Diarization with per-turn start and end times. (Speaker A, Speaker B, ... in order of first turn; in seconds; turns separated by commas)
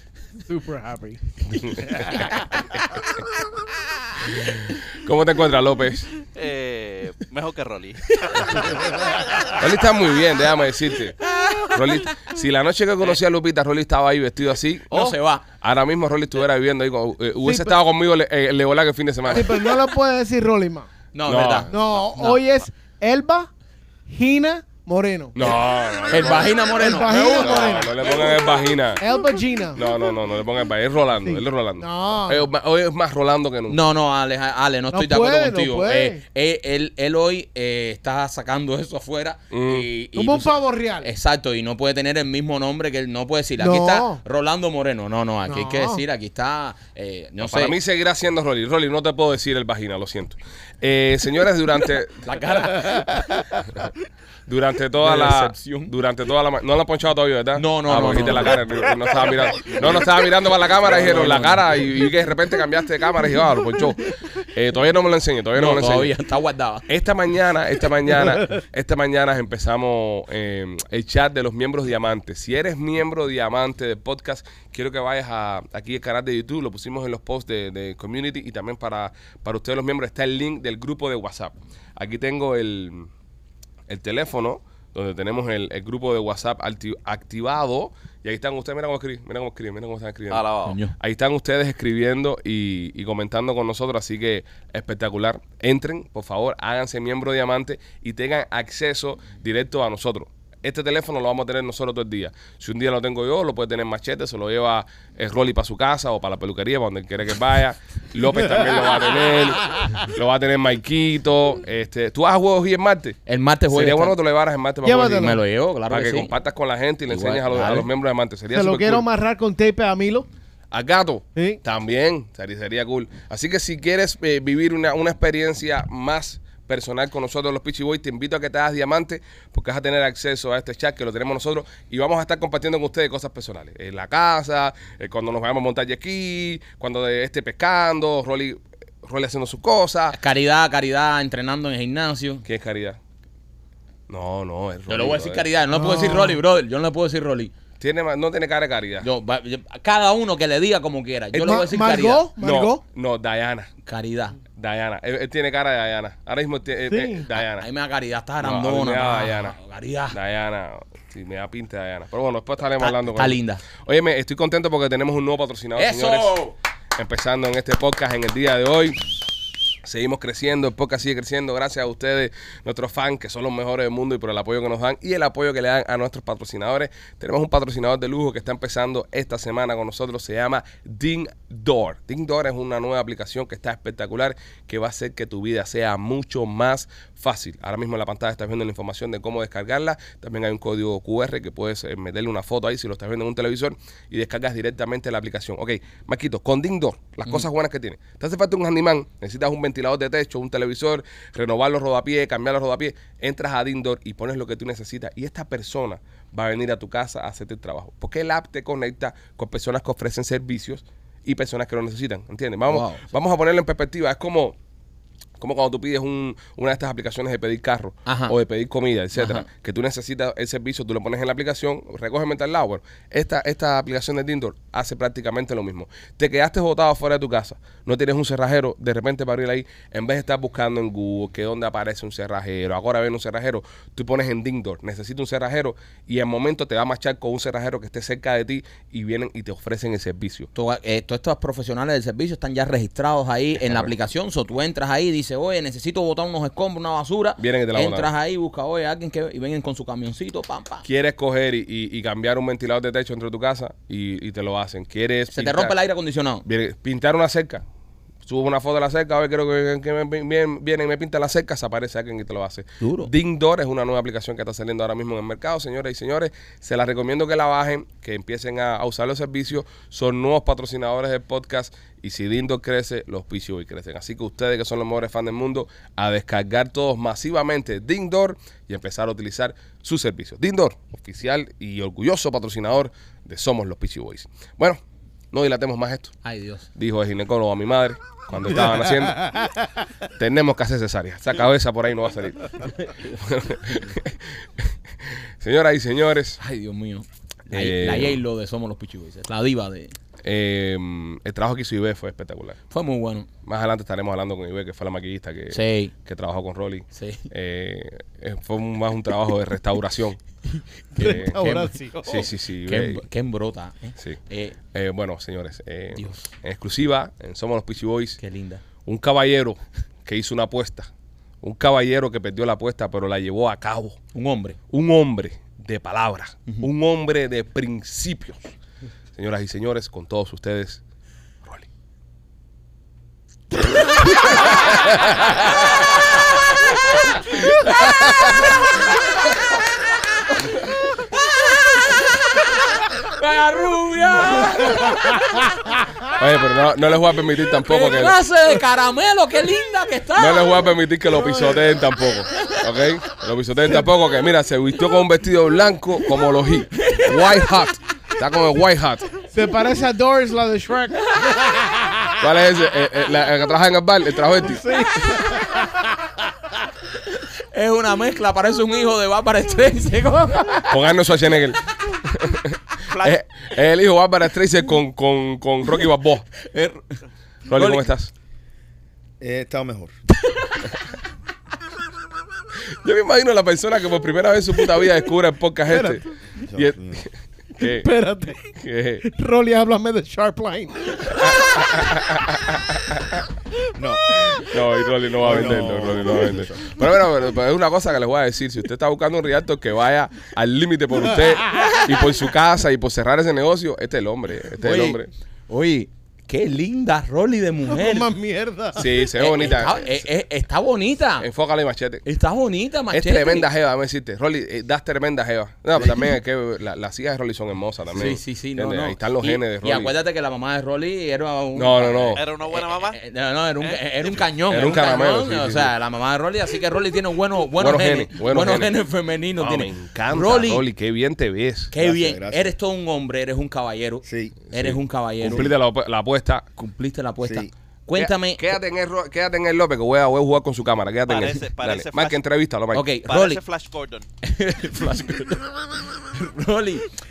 Speaker A: 0.5-2.3, Speaker B: 1.5-3.0, Speaker B: 4.3-6.1, Speaker C: 6.3-9.5, Speaker B: 8.3-8.7, Speaker B: 9.6-11.2, Speaker B: 11.7-19.8, Speaker D: 14.9-15.4, Speaker A: 17.4-17.8, Speaker A: 19.3-20.9, Speaker D: 21.1-22.4, Speaker B: 21.2-21.7, Speaker A: 21.7-23.5, Speaker A: 24.1-25.4, Speaker B: 25.3-29.0, Speaker D: 26.1-27.8, Speaker A: 26.6-29.8, Speaker B: 29.7-33.8, Speaker A: 31.2-32.5, Speaker D: 33.7-47.7, Speaker A: 34.9-36.2, Speaker B: 39.5-39.9, Speaker A: 40.1-41.1, Speaker A: 43.6-44.2, Speaker A: 45.5-46.0, Speaker B: 47.4-52.2, Speaker D: 52.2-53.0, Speaker A: 52.9-53.4, Speaker B: 54.5-66.1, Speaker D: 55.0-55.9, Speaker D: 57.5-58.6, Speaker D: 60.8-61.8, Speaker D: 65.5-66.8, Speaker B: 66.9-83.1, Speaker B: 83.9-113.2, Speaker C: 90.3-90.7, Speaker D: 90.7-90.9, Speaker A: 109.8-110.1, Speaker D: 113.3-114.1, Speaker B: 113.7-115.3, Speaker A: 114.8-115.4, Speaker D: 115.1-116.3, Speaker B: 115.9-119.0, Speaker D: 117.1-117.9, Speaker A: 118.5-120.3, Speaker B: 120.7-140.2, Speaker D: 140.1-142.4, Speaker B: 142.4-143.0, Speaker B: 144.1-145.4, Speaker D: 144.9-147.5, Speaker A: 145.7-146.4, Speaker B: 147.8-149.1, Speaker D: 149.0-152.2, Speaker A: 151.3-152.8, Speaker B: 152.4-153.7, Speaker D: 153.8-154.4, Speaker B: 154.6-157.7, Speaker A: 156.9-157.3, Speaker D: 157.3-160.1, Speaker B: 158.4-159.6, Speaker B: 160.1-166.4, Speaker D: 162.8-163.6, Speaker D: 165.8-166.6, Speaker B: 166.9-169.1, Speaker B: 169.8-214.6, Speaker D: 212.7-213.1, Speaker B: 215.4-240.5, Speaker D: 218.1-218.3, Speaker D: 219.1-219.5, Speaker D: 240.5-250.8, Speaker B: 243.6-243.9, Speaker B: 247.4-248.1, Speaker B: 250.8-255.8, Speaker D: 255.3-256.4, Speaker B: 256.4-257.6, Speaker B: 258.2-284.8, Speaker D: 262.8-263.1, Speaker B: 285.3-286.2, Speaker D: 286.2-286.7, Speaker B: 286.8-289.3, Speaker B: 290.2-296.4, Speaker D: 296.4-299.9, Speaker B: 297.5-298.2, Speaker B: 300.2-302.6, Speaker D: 302.7-303.3, Speaker B: 303.4-310.2, Speaker D: 305.5-305.9, Speaker D: 306.9-307.3, Speaker A: 310.9-312.1, Speaker D: 311.0-311.8, Speaker B: 311.0-311.3, Speaker B: 312.0-313.0, Speaker D: 312.6-314.6, Speaker B: 314.7-318.2, Speaker D: 315.9-316.2, Speaker D: 318.2-318.6, Speaker B: 318.8-320.9, Speaker B: 321.4-324.0, Speaker D: 324.1-324.6, Speaker B: 324.7-328.5, Speaker B: 329.1-330.8, Speaker B: 331.4-331.7, Speaker B: 334.2-335.4, Speaker B: 337.3-338.4, Speaker D: 341.5-342.2, Speaker D: 342.9-345.5, Speaker B: 346.2-348.1, Speaker D: 347.6-350.6, Speaker B: 350.2-359.2, Speaker D: 356.9-357.1, Speaker A: 359.2-361.9, Speaker B: 362.2-364.6, Speaker A: 364.6-365.8, Speaker D: 367.5-370.6, Speaker B: 370.7-376.3, Speaker C: 372.9-373.2, Speaker D: 376.4-377.0, Speaker B: 377.5-378.1, Speaker D: 377.5-377.9, Speaker E: 379.2-380.0, Speaker B: 382.8-386.0, Speaker A: 385.7-386.0, Speaker E: 386.4-387.1, Speaker B: 386.5-387.9, Speaker A: 387.6-388.5, Speaker B: 388.5-389.0, Speaker A: 389.0-391.2, Speaker B: 391.1-393.2, Speaker E: 393.8-394.3, Speaker B: 394.4-405.1, Speaker E: 395.2-396.7, Speaker A: 401.4-401.8, Speaker D: 404.6-405.0, Speaker D: 405.5-408.1, Speaker A: 407.7-409.1, Speaker B: 408.8-410.0, Speaker D: 409.1-411.3, Speaker B: 411.2-412.0, Speaker D: 412.0-413.5, Speaker B: 412.9-419.9, Speaker D: 417.9-430.6, Speaker B: 421.5-422.2, Speaker C: 422.1-423.0, Speaker C: 423.6-424.7, Speaker B: 424.5-425.7, Speaker B: 427.6-428.7, Speaker B: 429.4-431.7, Speaker D: 431.7-435.5, Speaker E: 431.8-432.5, Speaker E: 434.0-434.4, Speaker B: 434.5-436.5, Speaker E: 435.2-435.5, Speaker D: 436.6-438.4, Speaker E: 437.2-437.5, Speaker B: 437.9-442.9, Speaker C: 441.1-442.2, Speaker D: 442.7-443.4, Speaker C: 443.1-444.0, Speaker D: 444.2-446.9